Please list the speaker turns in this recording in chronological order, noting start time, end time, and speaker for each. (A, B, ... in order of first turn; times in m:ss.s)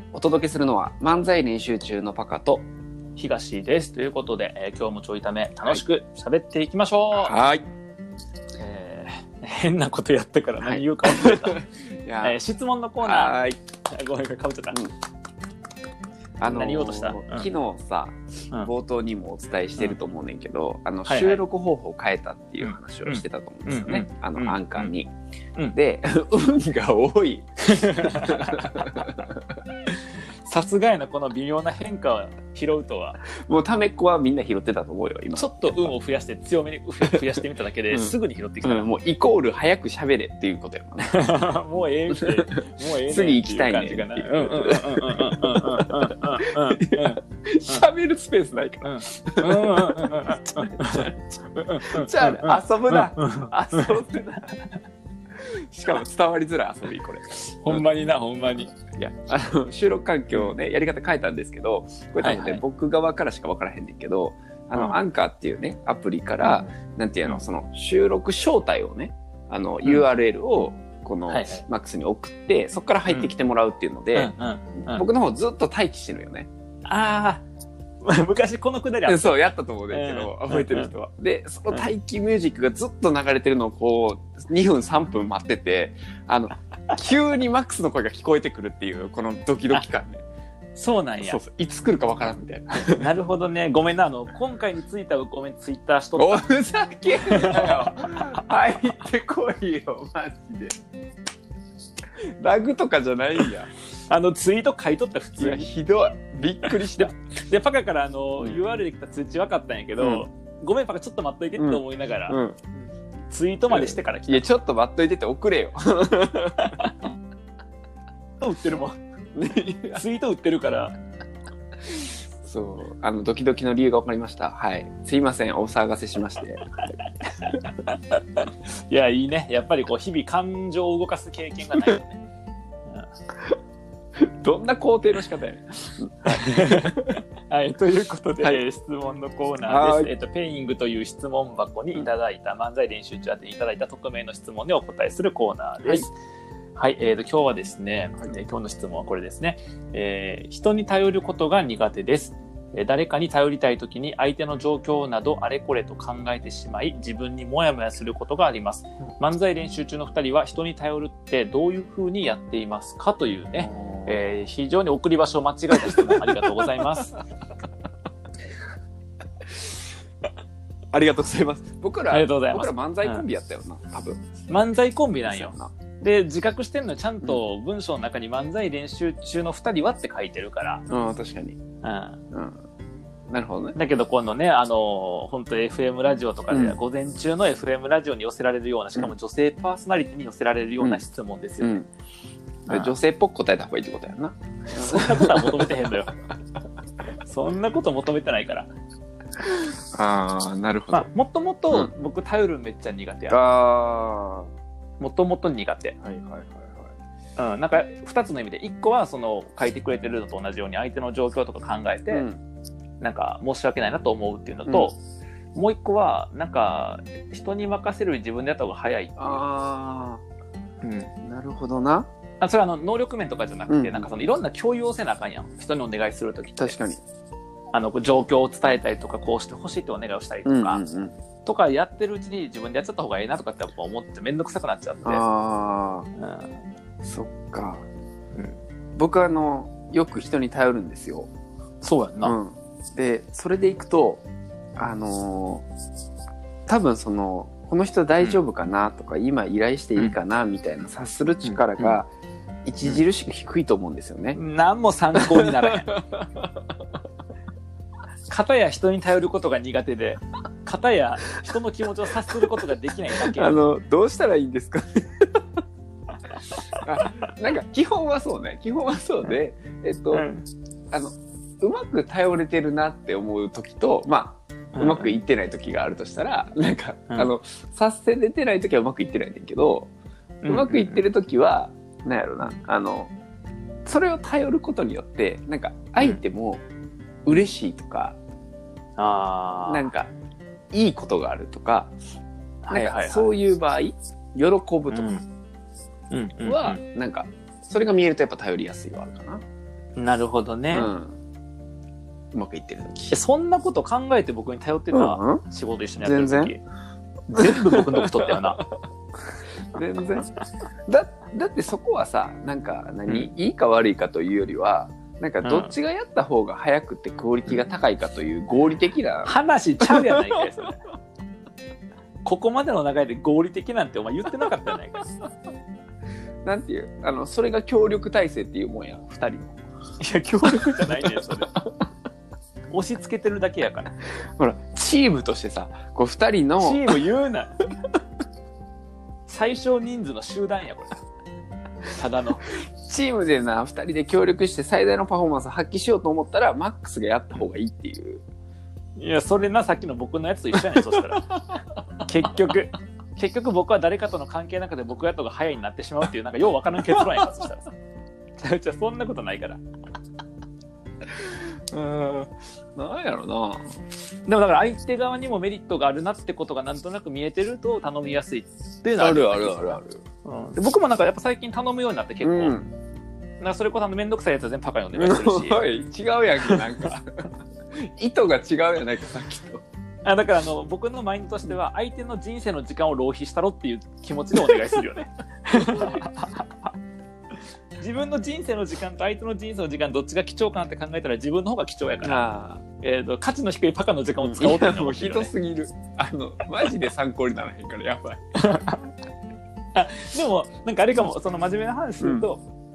0:00.1-0:02.6 A
0:03.2-0:07.3 B
0:07.1-0:07.6 A
0:08.6-0:11.6 B
0:10.6-0:12.4 A
0:12.2-0:14.8 B
0:13.0-0:13.6 A
0:16.4-0:25.1 A
0:16.4-0:17.5 B
0:21.1-0:21.4 B
0:22.6-0:24.9 B
0:25.7-0:29.4 A
0:27.7-0:29.2 B
0:29.9-0:33.2 B
0:33.4-0:35.9 A
0:35.3-0:38.9 B
0:37.9-0:41.2 A
0:41.0-0:47.8 B
0:42.1-0:51.1 A
0:48.8-0:54.0 B
0:51.8-0:54.4 A
0:55.4-0:57.8 A
0:57.6-0:58.7 B
0:58.8-1:14.3 A
1:02.2-1:02.6 B
1:06.4-1:06.7 B
1:11.3-1:11.6 B
1:14.1-1:15.1 B
1:14.8-1:16.5 A
1:16.8-1:17.4 B
1:18.0-1:20.9 B
1:19.0-1:30.2 A
1:30.7-1:31.4 B
1:31.2-1:33.1 A
1:32.9-1:36.4 B
1:36.2-1:40.7 A
1:37.2-1:38.4 B
1:42.4-1:43.7 A
1:44.1-1:45.7 B
1:45.4-1:47.1 A
1:46.7-1:52.4 B
1:50.0-1:50.2 A
1:51.6-1:52.6 A
1:53.3-1:54.5 B
1:53.7-1:56.9 A
1:56.6-1:57.0 B
1:58.4-1:59.0 B
1:59.3-2:00.0 A
1:59.9-2:00.9 B
2:01.9-2:06.6 A
2:06.8-2:12.2 B
2:14.2-2:17.2 A
2:16.2-2:26.1 B
2:19.6-2:20.1 A
2:25.8-2:26.1 A
2:26.7-2:47.2 B
2:43.6-2:44.2 A
2:45.7-2:46.8 A
2:50.9-2:54.3 A
2:52.1-2:53.2 B
2:54.5-3:00.8 B
2:55.2-2:55.7 A
3:00.9-3:01.6 A
3:01.8-3:02.2 B
3:02.3-3:02.6 A
3:03.3-3:03.8 A
3:03.7-3:11.8 B
3:06.5-3:06.8 A
3:11.6-3:11.9 A
3:12.7-3:15.7 A
3:14.7-3:16.2 B
3:17.2-3:18.7 B
3:19.5-3:21.1 A
3:20.9-3:23.4 B
3:23.3-3:24.5 A
3:25.0-3:26.0 B
3:26.0-3:26.9 A
3:27.4-3:32.2 B
3:32.1-3:32.4 A
3:33.0-3:35.0 B
3:35.5-3:39.4 B
3:39.2-3:40.2 A
3:40.8-3:41.1 B
3:41.2-3:42.1 A
3:42.4-3:46.8 B
3:43.7-3:44.1 A
3:46.6-3:47.0 A
3:47.7-3:50.8 B
3:50.4-3:51.1 A
3:51.4-3:55.2 B
3:55.0-3:56.1 A
3:56.2-3:56.6 B
3:57.0-3:57.8 A
3:59.0-4:01.3 A
4:01.8-4:02.4 B
4:02.2-4:04.2 A
4:04.8-4:05.6 A
4:06.7-4:12.1 A
4:11.4-4:12.0 B
4:12.6-4:14.4 A
4:14.3-4:16.0 B
4:15.1-4:16.5 A
4:18.3-4:23.6 B
4:23.2-4:25.4 A
4:26.5-4:27.1 B
4:26.8-4:30.3 A
4:30.1-4:30.4 B
4:30.9-4:39.9 A
4:34.7-4:35.2 B
4:40.4-4:41.0 B
4:40.5-4:43.1 A
4:43.8-4:46.6 A
4:47.2-4:48.2 A
4:49.0-4:49.9 B
4:49.7-4:50.1 A
4:50.7-4:51.9 A
4:52.6-4:53.3 B
4:52.7-4:55.2 A
4:54.9-4:55.2 B
4:56.1-4:56.8 B
4:56.4-4:59.4 A
5:00.0-5:00.9 B
5:00.7-5:01.2 A
5:02.3-5:03.2 A
5:03.1-5:06.6 B
5:04.9-5:05.4 A
5:06.0-5:06.5 A
5:07.3-5:08.6 B
5:07.4-5:08.6 A
5:09.7-5:10.3 A
5:10.9-5:20.5 A
5:15.4-5:15.7 B
5:19.2-5:20.8 B
5:22.2-5:25.0 B
5:26.4-5:29.5 A
5:30.0-5:31.5 B
5:30.4-5:31.5 A
5:32.7-5:33.9 B
5:34.4-5:37.0 A
5:36.6-5:37.6 B
5:39.3-5:41.0 B
5:41.9-5:42.4 B
5:42.8-5:48.2 A
5:49.0-5:51.4 B
5:50.7-5:51.1 A
5:52.0-5:57.6 B
5:58.4-5:59.6 B
6:01.2-6:01.9 A
6:01.7-6:02.3 B
6:02.8-6:03.7 A
6:04.2-6:12.6 B
6:09.0-6:10.0 A
6:12.2-6:12.7 A
6:13.4-6:15.6 B
6:14.9-6:19.6 A
6:16.4-6:16.9 B
6:20.0-6:26.5 B
6:25.6-6:26.0 A
6:27.8-6:32.2 B
6:32.0-6:32.6 A
6:32.8-6:35.3 B
6:34.2-6:38.2 A
6:38.4-6:38.9 B
6:39.7-6:42.4 B
6:42.0-6:42.3 A